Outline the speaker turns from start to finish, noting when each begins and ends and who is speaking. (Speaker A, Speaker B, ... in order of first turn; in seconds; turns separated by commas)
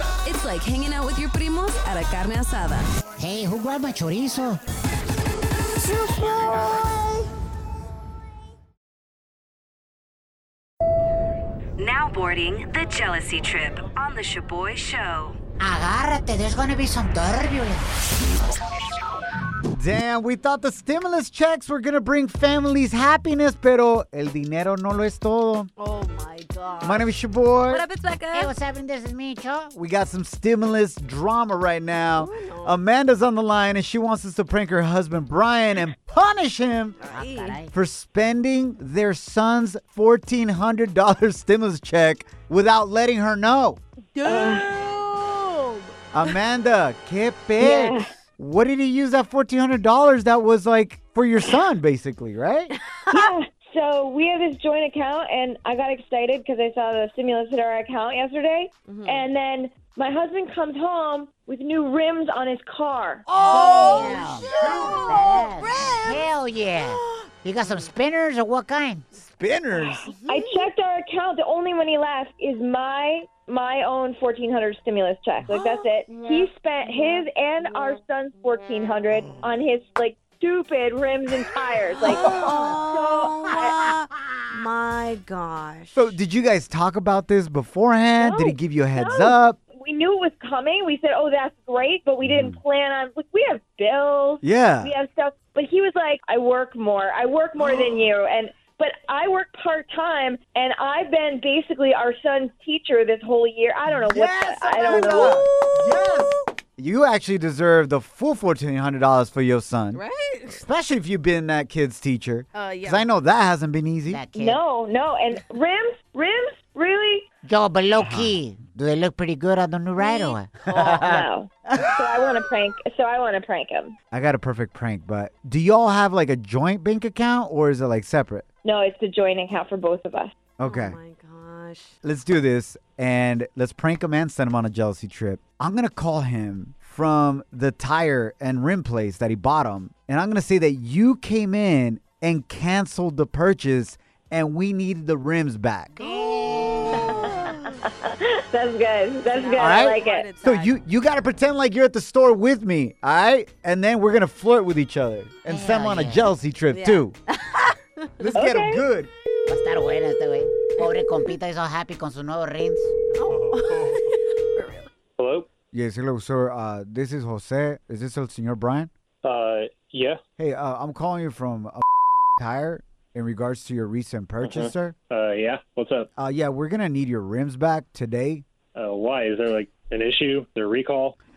Speaker A: 0.2-2.9, Speaker B: 3.2-4.6, Speaker A: 5.8-7.2, Speaker C: 11.8-15.4, Speaker B: 15.6-17.9, Speaker D: 19.7-25.7, Speaker A: 25.8-27.1, Speaker D: 26.8-27.8, Speaker A: 27.7-28.5, Speaker B: 28.3-29.7, Speaker D: 29.7-37.0, Speaker A: 32.2-32.8, Speaker A: 37.0-37.6, Speaker B: 37.1-37.7, Speaker D: 37.7-43.8, Speaker A: 44.1-45.9, Speaker E: 44.2-44.7, Speaker D: 46.1-52.7, Speaker E: 47.6-48.1, Speaker A: 52.9-53.3, Speaker E: 53.1-63.2, Speaker A: 58.9-59.3, Speaker A: 63.3-66.3, Speaker D: 63.4-64.7, Speaker B: 63.5-69.0, Speaker A: 66.8-67.2, Speaker D: 69.1-70.1, Speaker A: 70.0-70.5, Speaker E: 70.3-83.9, Speaker A: 82.0-86.1, Speaker D: 82.3-82.7, Speaker D: 85.9-89.6, Speaker E: 88.2-105.4, Speaker D: 92.2-92.5, Speaker D: 94.4-94.9, Speaker D: 103.9-114.2, Speaker A: 104.8-106.2, Speaker A: 109.9-110.6, Speaker A: 112.5-113.1, Speaker B: 114.1-114.6, Speaker E: 114.3-117.3, Speaker B: 117.4-121.2, Speaker A: 120.0-121.2, Speaker D: 120.8-121.1, Speaker E: 121.0-124.0, Speaker D: 124.1-128.4, Speaker E: 128.6-130.3, Speaker D: 130.6-131.0, Speaker A: 130.6-131.9, Speaker D: 132.0-146.0, Speaker B: 145.9-147.3, Speaker A: 146.8-147.5, Speaker E: 146.9-150.3, Speaker A: 149.2-150.8, Speaker D: 149.6-157.1, Speaker B: 155.5-156.3, Speaker A: 156.7-158.1, Speaker D: 158.2-159.1, Speaker E: 158.3-158.8, Speaker B: 159.4-162.9, Speaker A: 163.1-164.9, Speaker F: 165.2-165.5, Speaker D: 165.7-168.9, Speaker F: 169.2-170.2, Speaker D: 170.4-171.8, Speaker D: 172.4-174.9, Speaker F: 174.4-176.1, Speaker D: 176.2-178.4, Speaker F: 178.7-181.1